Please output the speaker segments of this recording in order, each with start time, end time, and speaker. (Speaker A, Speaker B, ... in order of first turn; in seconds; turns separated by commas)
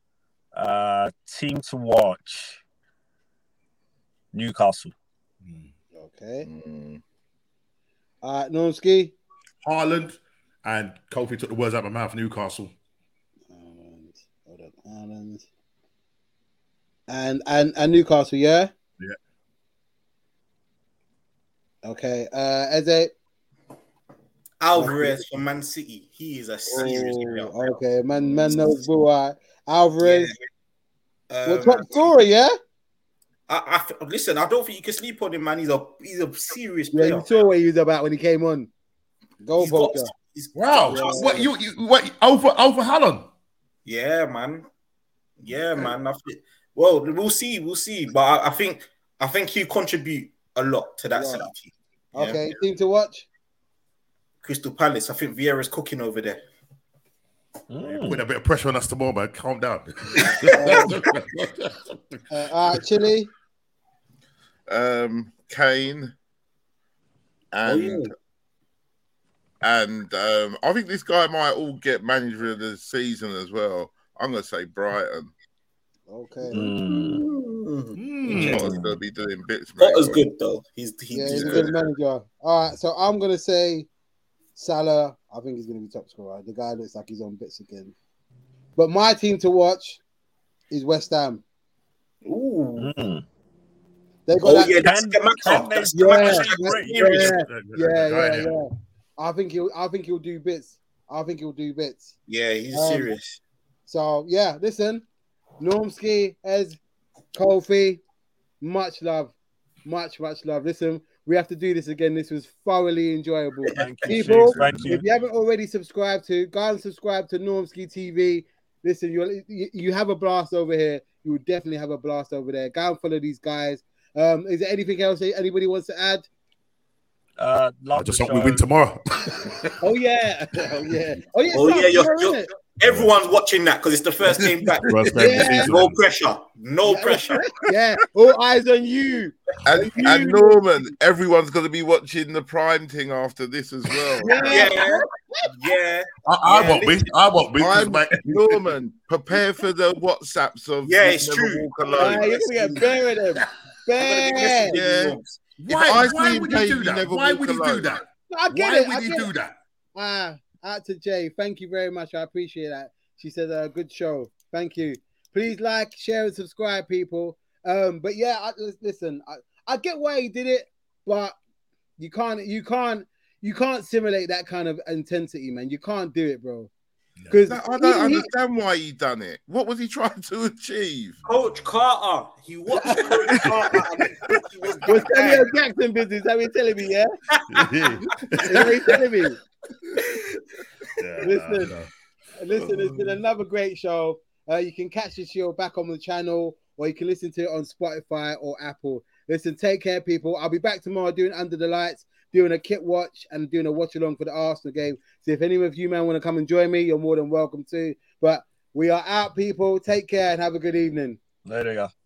Speaker A: 0.5-2.6, Speaker A: 4.3-4.9, Speaker B: 5.5-5.7, Speaker C: 6.0-6.5, Speaker D: 6.5-7.0, Speaker C: 8.2-9.1, Speaker B: 9.6-12.7, Speaker C: 13.5-15.4, Speaker C: 17.1-18.7, Speaker C: 21.8-23.1, Speaker E: 24.6-27.8, Speaker C: 24.8-25.2, Speaker C: 26.7-30.3, Speaker E: 28.4-28.7, Speaker E: 30.0-30.4, Speaker E: 31.3-32.0, Speaker C: 31.5-32.5, Speaker E: 33.5-37.3, Speaker C: 36.9-38.7, Speaker C: 39.4-40.1, Speaker E: 39.6-41.4, Speaker B: 40.5-43.3, Speaker C: 40.9-41.5, Speaker E: 43.9-44.7, Speaker E: 45.4-51.7, Speaker C: 51.2-51.5, Speaker C: 52.1-53.3, Speaker D: 52.1-52.5, Speaker E: 54.4-56.4, Speaker A: 57.7-58.2, Speaker B: 57.9-62.0, Speaker C: 60.1-60.9, Speaker E: 60.4-60.9, Speaker C: 62.3-63.3, Speaker D: 64.7-66.1, Speaker D: 67.5-68.1, Speaker E: 67.7-68.1, Speaker D: 69.6-75.3, Speaker C: 76.1-76.6, Speaker A: 76.5-77.2, Speaker E: 76.6-78.7, Speaker B: 78.0-78.5, Speaker A: 78.3-79.0, Speaker D: 78.3-80.3, Speaker E: 79.8-81.7, Speaker C: 81.1-83.9, Speaker D: 81.3-81.7, Speaker C: 84.6-87.9, Speaker C: 88.8-90.0, Speaker C: 90.7-91.4, Speaker E: 92.2-92.9, Speaker A: 92.8-93.2, Speaker C: 94.3-94.8, Speaker E: 94.4-97.4, Speaker A: 94.8-97.3, Speaker C: 95.9-102.1, Speaker B: 97.3-98.5, Speaker E: 102.3-103.4, Speaker C: 102.7-103.1, Speaker C: 103.9-105.0, Speaker C: 105.6-106.8, Speaker C: 107.3-108.0, Speaker C: 108.6-109.3, Speaker C: 109.8-126.3, Speaker E: 113.7-114.5, Speaker A: 113.7-115.0, Speaker B: 114.4-114.9, Speaker A: 127.4-128.7, Speaker B: 128.0-129.7, Speaker C: 129.8-132.5, Speaker E: 131.5-137.4, Speaker B: 134.9-136.0, Speaker C: 135.2-135.8, Speaker C: 136.9-140.9, Speaker D: 139.7-144.6, Speaker C: 144.2-145.5, Speaker E: 144.5-147.1, Speaker B: 146.2-148.6, Speaker D: 147.6-152.4, Speaker E: 150.8-153.0, Speaker C: 152.0-154.8, Speaker E: 154.0-155.4, Speaker D: 154.7-158.0, Speaker B: 155.6-159.5, Speaker C: 158.3-159.3, Speaker C: 160.0-171.4, Speaker C: 172.0-176.7, Speaker C: 177.3-178.3, Speaker D: 177.5-181.2, Speaker E: 181.3-185.5, Speaker C: 182.8-183.1, Speaker C: 184.8-187.1, Speaker E: 187.3-187.7, Speaker B: 187.5-189.0, Speaker C: 188.4-189.4, Speaker B: 191.0-191.9, Speaker C: 191.2-191.7, Speaker C: 192.4-211.2, Speaker A: 211.5-211.9